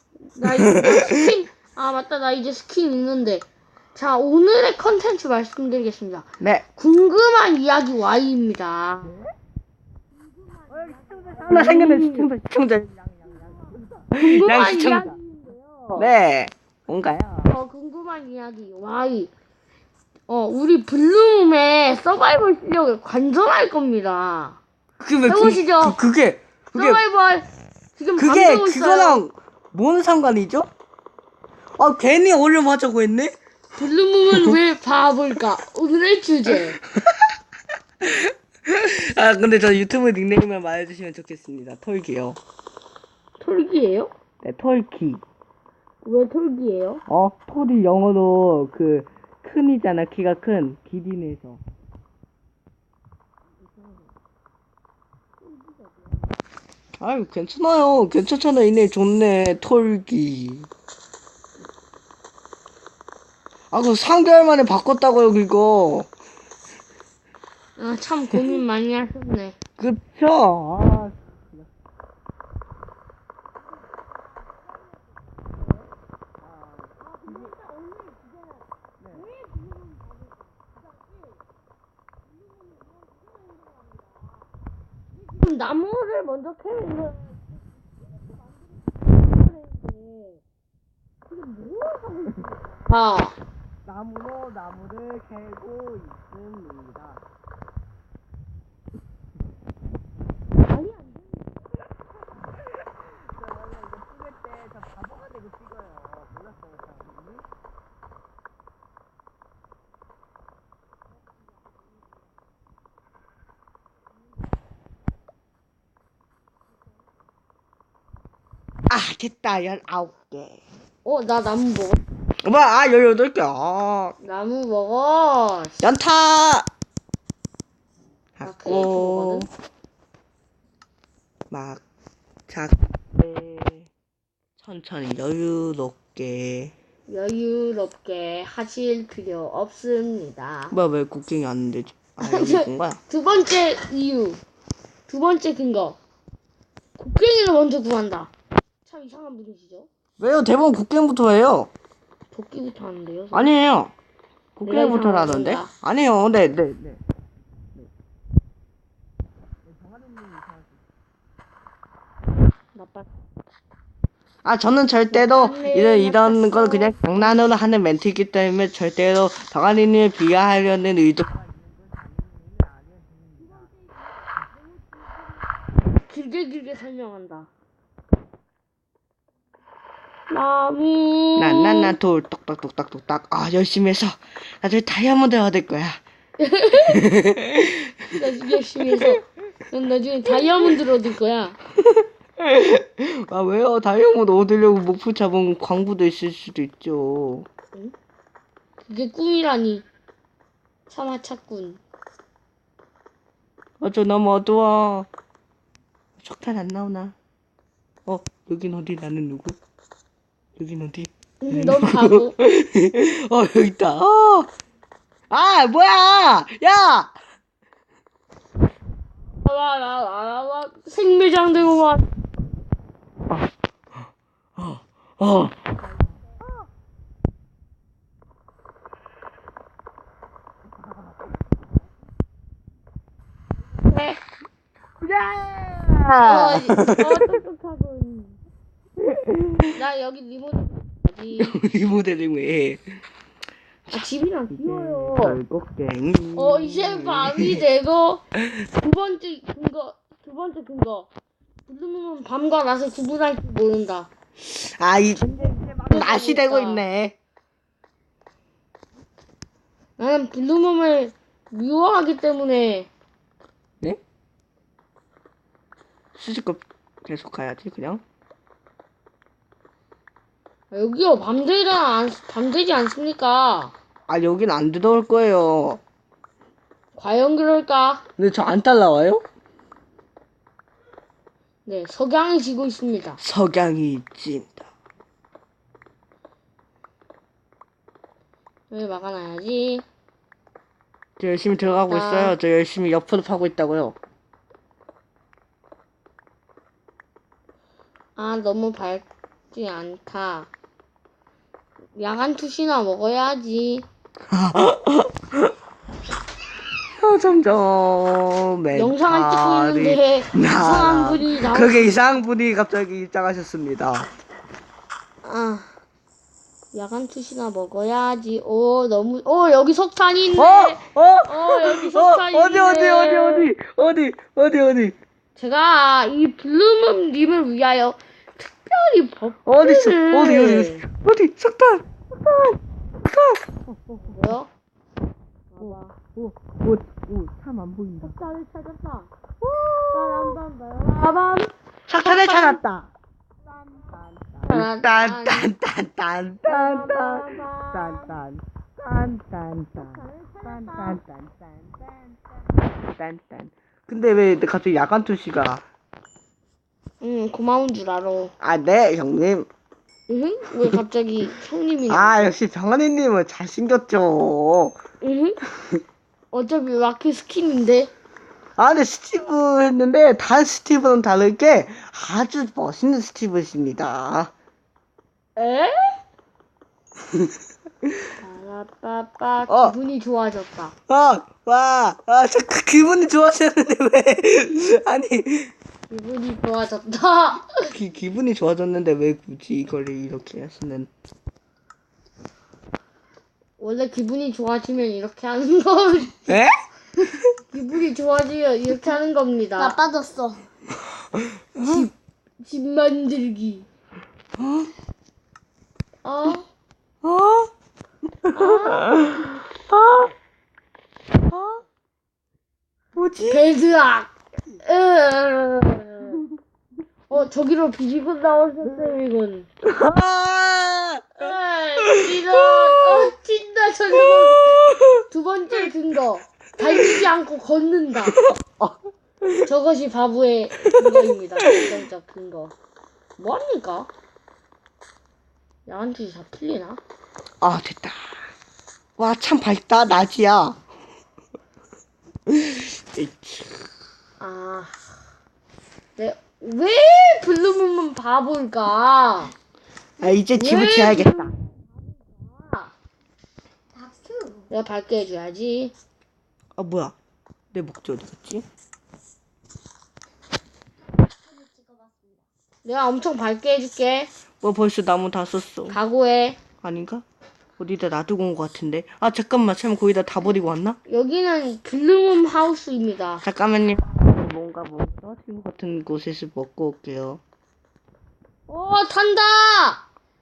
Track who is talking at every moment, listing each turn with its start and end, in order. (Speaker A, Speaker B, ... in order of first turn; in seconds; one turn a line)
Speaker A: 0.3-9.1
Speaker B: 0.4-1.3
Speaker B: 6.4-6.7
Speaker B: 10.7-15.1
Speaker A: 11.3-12.3
Speaker A: 14.1-16.1
Speaker B: 15.9-17.5
Speaker A: 17.4-19.3
Speaker A: 20.3-24.6
Speaker B: 25.0-27.0
Speaker A: 25.3-26.0
Speaker A: 26.7-29.2
Speaker B: 28.2-30.7
Speaker B: 31.8-33.3
Speaker A: 33.7-36.8
Speaker B: 34.3-34.6
Speaker B: 36.5-37.3
Speaker B: 38.0-42.4
Speaker A: 43.4-44.1
Speaker B: 44.4-45.2
Speaker A: 46.0-47.0
Speaker B: 47.1-51.6
Speaker B: 57.0-60.7
Speaker B: 63.7-66.1
Speaker A: 67.8-69.5
Speaker B: 69.8-71.6
Speaker B: 76.4-77.0
Speaker B: 79.0-79.3
Speaker A: 85.3-87.4
Speaker A: 89.4-90.4
Speaker A: 91.3-93.3
Speaker B: 93.8-97.2
Speaker A: 100.6-101.6
Speaker B: 103.0-107.4
Speaker B: 118.9-120.6
Speaker A: 121.0-122.0
Speaker B: 122.4-124.1
Speaker A: 124.2-125.8
Speaker B: 125.8-126.7
Speaker B: 128.3-129.5
Speaker A: 128.4-129.5
Speaker B: 131.5-131.8
Speaker B: 132.5-133.9
Speaker B: 134.6-136.7
Speaker A: 137.1-140.8
Speaker B: 140.7-143.0
Speaker A: 142.2-144.4
Speaker A: 145.1-146.0
Speaker A: 147.0-148.3
Speaker A: 148.8-149.9
Speaker B: 150.2-151.7
Speaker A: 152.3-153.5
Speaker B: 153.3-153.9
Speaker B: 154.6-157.0
Speaker A: 154.7-155.7
Speaker B: 159.6-160.8
Speaker A: 162.7-163.1
Speaker B: 164.4-173.6
Speaker A: 165.1-167.3
Speaker A: 176.0-177.5
Speaker A: 180.3-181.9
Speaker B: 181.4-186.0
Speaker A: 186.4-187.0
Speaker B: 186.9-187.9
Speaker A: 188.1-191.6
Speaker B: 191.8-197.5
Speaker A: 198.8-199.8
Speaker A: 200.9-201.8
Speaker B: 203.8-205.1
Speaker B: 206.2-207.1
Speaker B: 208.0-209.6
Speaker B: 210.6-214.5
Speaker A: 211.4-212.3
Speaker B: 215.3-217.1
Speaker A: 219.4-222.1
Speaker B: 224.6-225.6
Speaker A: 233.8-234.2
Speaker B: 235.0-237.3
Speaker A: 236.2-238.4
Speaker B: 239.0-239.7
Speaker A: 239.7-241.6
Speaker B: 241.4-243.0
Speaker B: 243.9-247.6
Speaker A: 243.9-245.4
Speaker A: 246.3-251.1
Speaker A: 251.7-254.1
Speaker B: 254.6-257.1
Speaker A: 255.2-256.8
Speaker A: 260.0-262.9
Speaker B: 266.1-268.0
Speaker A: 270.7-273.7
Speaker B: 274.1-275.8
Speaker A: 276.9-278.0
Speaker B: 278.2-279.2
Speaker A: 281.6-283.2
Speaker B: 283.2-284.7
Speaker A: 288.7-289.9
Speaker B: 291.2-294.0
Speaker A: 291.9-292.4
Speaker A: 298.1-300.5
Speaker A: 301.9-303.9
Speaker B: 304.3-305.5
Speaker B: 307.0-314.1
Speaker A: 308.7-311.9
Speaker A: 315.2-315.7
Speaker A: 316.7-323.5
Speaker B: 320.4-324.9
Speaker A: 325.4-330.8
Speaker B: 329.4-334.2
Speaker A: 334.1-334.5
Speaker A: 335.5-335.9
Speaker B: 335.6-338.1
Speaker A: 338.0-339.1
Speaker B: 339.4-340.4
Speaker A: 339.9-342.6
Speaker B: 341.9-342.9
Speaker B: 343.6-352.2
Speaker A: 344.5-345.5
Speaker A: 346.5-348.2
Speaker A: 349.8-351.0
Speaker B: 352.8-355.6
Speaker A: 357.0-358.3
Speaker B: 358.4-359.5
Speaker A: 360.1-362.3
Speaker B: 361.9-364.8
Speaker A: 365.0-365.4
Speaker A: 366.3-367.9
Speaker B: 368.6-374.3
Speaker A: 375.4-376.0
Speaker A: 378.2-380.7
Speaker B: 379.5-379.7
Speaker B: 380.9-385.5
Speaker A: 385.9-387.7
Speaker B: 387.7-390.9
Speaker A: 393.6-396.3
Speaker B: 396.3-396.5
Speaker A: 397.5-399.8
Speaker C: 399.6-400.4
Speaker B: 401.1-401.9
Speaker A: 401.6-403.7
Speaker B: 404.4-404.7
Speaker A: 406.0-406.5
Speaker B: 407.0-407.5
Speaker B: 408.2-410.1
Speaker A: 408.3-409.1
Speaker B: 411.3-411.6
Speaker B: 412.9-413.4
Speaker A: 413.3-416.2
Speaker A: 417.1-419.5
Speaker B: 419.6-423.1
Speaker A: 421.2-428.2
Speaker B: 424.6-425.0
Speaker B: 426.6-426.9
Speaker B: 428.1-429.5
Speaker A: 429.4-432.5
Speaker B: 430.7-431.1
Speaker A: 433.2-433.9
Speaker A: 435.6-436.8
Speaker B: 437.4-438.1
Speaker B: 439.0-440.6
Speaker B: 442.3-443.5
Speaker A: 444.2-444.8
Speaker A: 446.0-449.3
Speaker B: 450.0-451.3
Speaker A: 450.3-452.7
Speaker C: 453.8-454.5
Speaker A: 454.5-455.7
Speaker B: 456.6-456.9
Speaker B: 457.5-458.4
Speaker C: 461.2-462.2
Speaker A: 462.6-464.1
Speaker B: 464.4-465.8
Speaker A: 465.7-466.4
Speaker B: 466.6-467.0
Speaker B: 467.6-470.8
Speaker A: 470.9-473.2
Speaker B: 473.2-477.2
Speaker A: 478.5-479.8